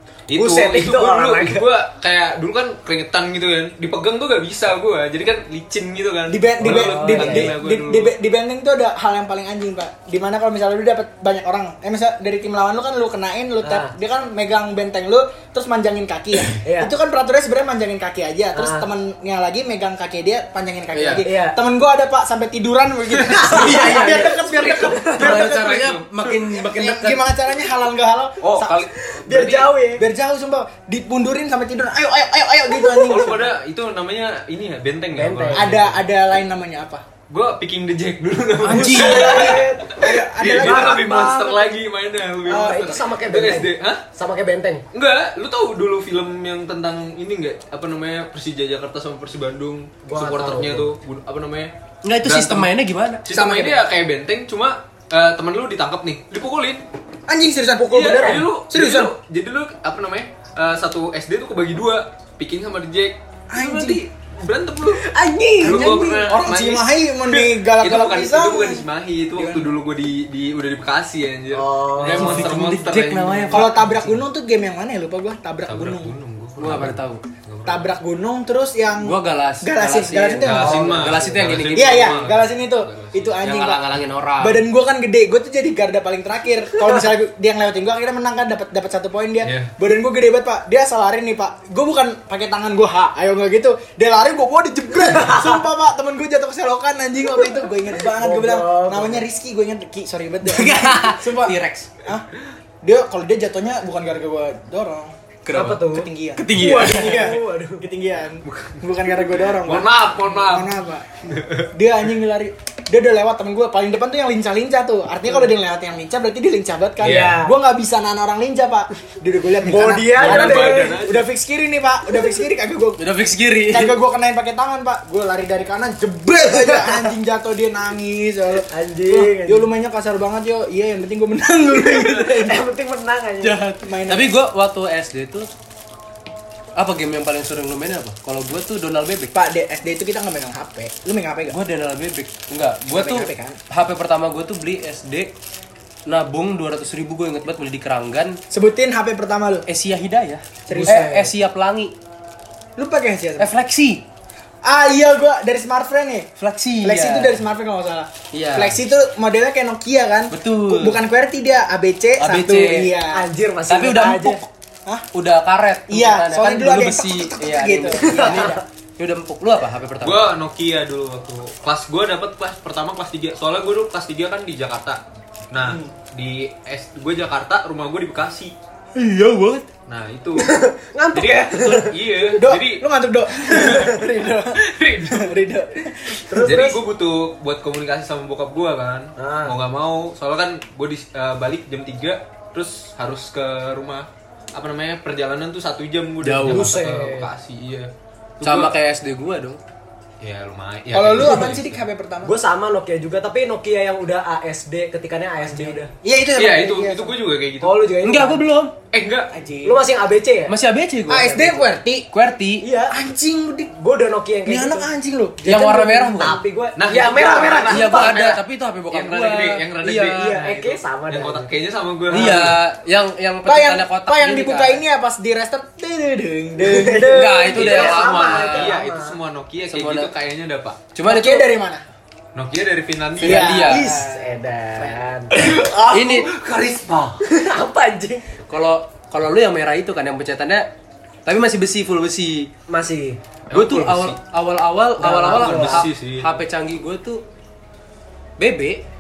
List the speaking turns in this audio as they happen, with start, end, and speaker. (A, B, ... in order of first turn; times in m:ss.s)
0:00.3-0:08.1 A
0:00.3-0:01.6 B
0:06.3-0:25.8 C
0:06.6-0:07.5 B
0:13.6-0:13.9 B
0:16.6-0:16.9 B
0:18.5-0:18.9 B
0:20.9-0:21.2 D
0:21.2-0:21.6 B
0:23.2-0:23.7 A
0:23.3-0:25.3 B
0:23.5-0:24.3 D
0:25.2-0:26.1 A
0:25.2-0:27.2 D
0:26.4-0:28.9 C
0:28.4-0:29.7 A
0:29.0-0:30.0 B
0:29.9-0:33.5 C
0:32.8-0:33.3 B
0:33.0-0:36.0 A
0:35.1-0:35.7 B
0:35.5-0:37.0 C
0:37.3-0:44.0 A
0:38.6-0:39.4 D
0:38.7-0:41.8 B
0:39.1-0:41.1 C
0:42.4-0:43.0 C
0:42.4-0:44.8 B
0:44.9-0:51.7 A
0:50.0-0:50.9 B
0:52.0-0:53.3 D
0:52.2-0:52.7 A
0:53.2-0:56.8 A
0:53.3-0:53.8 C
0:57.3-0:59.1 C
0:57.9-1:05.1 A
0:57.9-0:58.4 B
1:03.5-1:04.0 C
1:04.9-1:06.0 B
1:05.6-1:09.7 C
1:05.6-1:13.8 A
1:11.5-1:12.5 B
1:12.0-1:13.9 D
1:13.5-1:16.1 C
1:15.7-1:17.9 A
1:16.6-1:17.2 D
1:17.6-1:20.9 C
1:19.0-1:22.2 D
1:20.4-1:23.4 A
1:20.6-1:21.3 B
1:21.7-1:23.8 C
1:23.4-1:24.6 D
1:24.4-1:42.3 C
1:29.4-1:29.7 A
1:35.1-1:35.6 B
1:37.9-1:39.2 B
1:40.4-1:41.9 D
1:42.8-1:45.1 C
1:45.4-1:47.3 D
1:45.5-1:47.9 B
1:45.9-1:51.2 C
1:48.4-1:48.8 A
1:49.5-1:51.7 A
1:51.7-2:03.0 C
1:57.0-1:57.5 B
1:57.0-1:57.4 A
1:59.6-2:01.0 B
2:00.1-2:01.3 A
2:03.0-2:04.0 D
2:03.7-2:12.6 C
2:06.5-2:07.1 B
2:08.7-2:09.7 B
2:12.4-2:13.6 B
2:13.4-2:15.5 D
2:13.8-2:14.3 C
2:16.8-2:19.3 D
2:19.3-2:21.6 C
2:21.5-2:25.3 D
2:22.9-2:23.6 C
2:26.0-2:28.4 D
2:28.5-2:29.6 C
2:29.7-2:31.9 D
2:30.7-2:31.1 C
2:30.7-2:31.3 B
2:32.8-2:33.5 C
2:33.4-2:34.0 D
2:34.6-2:36.3 C
2:36.4-2:37.4 D
2:36.8-2:43.2 C
2:38.3-2:38.8 D
2:40.3-2:41.0 D
2:42.2-2:42.9 D
2:43.1-2:44.4 B
2:43.7-2:44.5 D
2:45.1-2:50.3 D
2:45.9-2:48.6 C
2:48.0-2:48.6 B
2:50.0-2:55.0 A
2:55.5-2:58.5 A
2:59.0-2:59.6 D
2:59.9-3:00.5 A
3:00.4-3:01.9 B
3:01.1-3:02.8 A
3:02.3-3:06.6 C
3:03.4-3:04.0 A
3:04.6-3:05.4 A
3:06.3-3:06.8 B
3:06.4-3:18.7 A
3:09.2-3:09.6 B
3:16.2-3:16.7 D
3:16.4-3:17.3 B
3:18.4-3:19.6 D
3:20.2-3:21.8 A
3:20.9-3:22.3 C
3:22.2-3:25.9 B
3:25.4-3:27.2 C
3:26.3-3:27.8 A
3:27.6-3:28.4 B
3:28.0-3:28.7 D
3:28.9-3:29.3 A
3:29.3-3:29.8 C
3:29.6-3:30.5 B
3:30.5-3:31.5 D
3:31.1-3:32.1 C
3:31.3-3:31.6 B
3:32.1-3:32.6 D
3:32.6-3:33.0 B
3:32.9-3:33.7 C
3:33.7-3:34.9 B
3:34.4-3:36.4 C
3:35.4-3:36.4 D
3:35.5-3:38.2 B
3:36.8-3:42.6 A
3:37.7-3:40.6 D
3:40.0-3:41.5 B
3:42.1-3:42.5 B
3:42.1-3:44.8 D
3:43.4-3:47.5 C
3:46.6-3:49.2 B
3:47.0-3:48.8 D
3:47.5-3:50.8 A
3:49.7-3:50.1 D
3:50.9-3:51.5 D
3:51.0-3:51.8 C
3:52.3-3:53.5 A
3:53.2-3:54.0 D
3:53.2-3:54.3 C
3:53.4-3:55.4 B
3:55.3-3:57.3 A
3:55.9-3:56.3 D
3:57.2-3:58.2 B
3:58.5-4:00.7 D
4:01.2-4:02.5 D
4:02.7-4:03.2 B
4:03.5-4:04.2 A
4:03.5-4:07.2 D
4:05.0-4:05.9 B
4:05.2-4:06.3 A
4:08.4-4:08.8 D